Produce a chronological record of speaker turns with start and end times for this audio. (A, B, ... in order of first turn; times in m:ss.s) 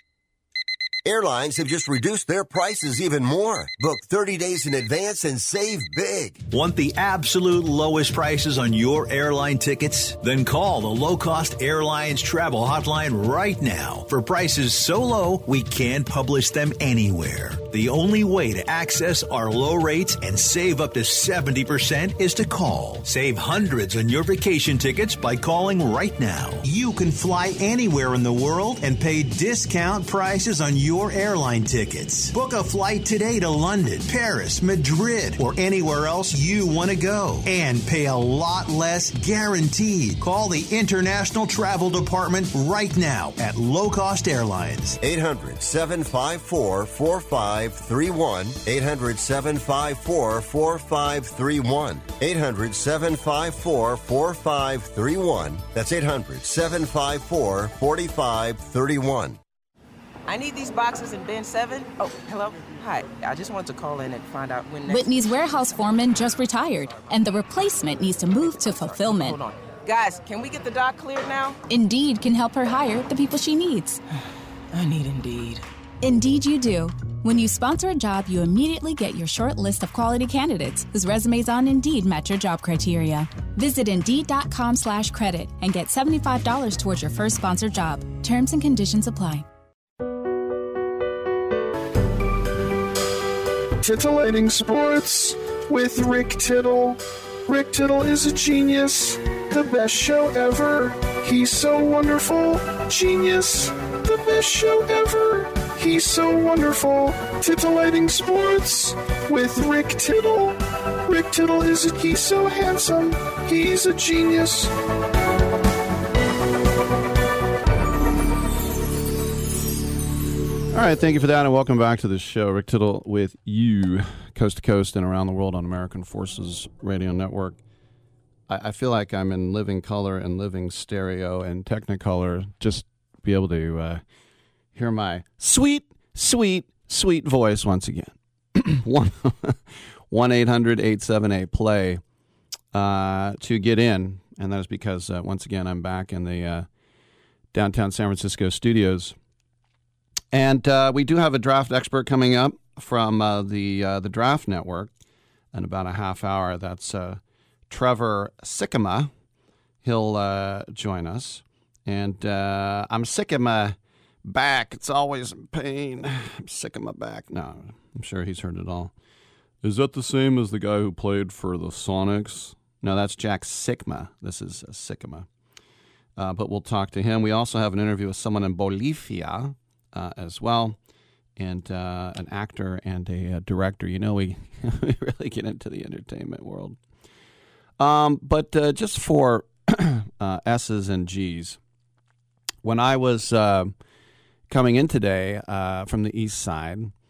0:01.0-0:06.4 A
0:06.5-0:45.0 B
0:45.0-0:59.4 A
1:00.3-1:05.2 C
1:04.9-1:09.4 D
1:08.6-1:11.6 C
1:11.7-1:14.0 D
1:14.7-1:15.6 C
1:16.0-1:29.4 D
1:33.8-1:54.7 E
2:00.7-2:07.6 F
2:08.5-2:14.0 F
2:14.8-2:19.6 F
2:20.1-2:22.0 F
2:22.7-2:26.7 F
2:27.5-2:29.2 F
2:30.3-2:34.9 F
2:35.5-2:39.1 F
2:39.8-2:48.9 F
2:49.6-2:55.3 F
2:56.2-3:00.8 F
3:01.4-3:06.8 F
3:07.8-3:11.6 F
3:12.6-3:13.7 F
3:14.5-3:16.9 F